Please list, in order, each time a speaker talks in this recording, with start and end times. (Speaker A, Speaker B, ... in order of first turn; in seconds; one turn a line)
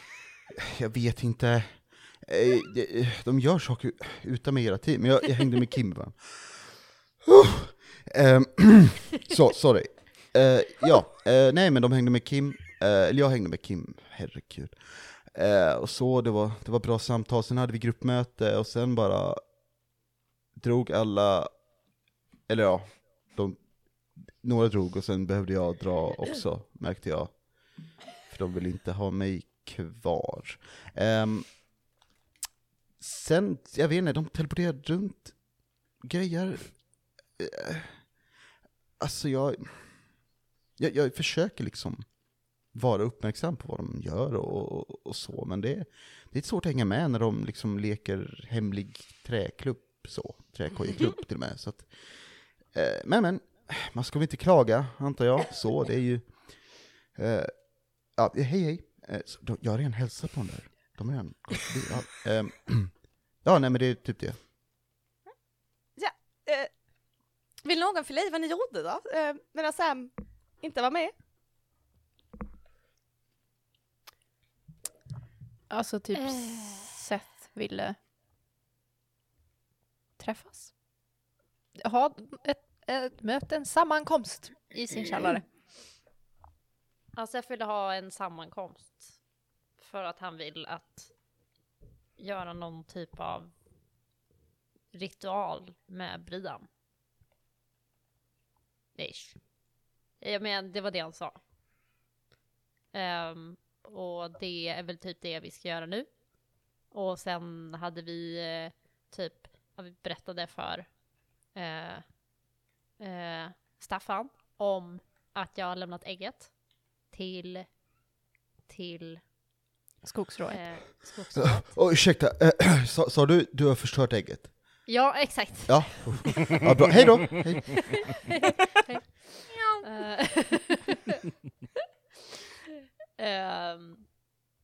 Speaker A: 0.6-19.4
Speaker A: 20.6-21.5
Speaker A: 22.5-23.6
Speaker A: 24.4-27.4
Speaker A: 28.1-31.5
Speaker A: 33.0-35.4
Speaker A: 36.0-38.1
Speaker A: 39.0-40.1
Speaker A: 40.8-42.1
Speaker A: 42.6-56.3
Speaker A: 57.1-57.5
Speaker A: 58.1-64.4
Speaker B: 66.0-66.7
Speaker B: 67.6-71.1
Speaker C: 75.7-78.0
Speaker C: 80.2-80.7
Speaker C: 81.8-85.4
Speaker D: 87.1-89.2
Speaker D: 89.8-91.1
Speaker D: 92.2-93.5
Speaker D: 94.9-96.7
Speaker D: 99.0-99.4
Speaker D: 100.2-101.4
Speaker D: 102.9-106.1
Speaker D: 106.9-110.9
Speaker D: 111.5-112.1
Speaker D: 113.0-116.5
Speaker D: 117.1-117.7
Speaker D: 118.7-119.2
Speaker C: 120.0-121.0
Speaker D: 120.5-121.8
Speaker A: 121.3-124.5
Speaker D: 124.8-126.6
Speaker A: 125.7-128.2
Speaker D: 128.6-129.0
Speaker D: 129.8-131.2
Speaker D: 133.2-134.1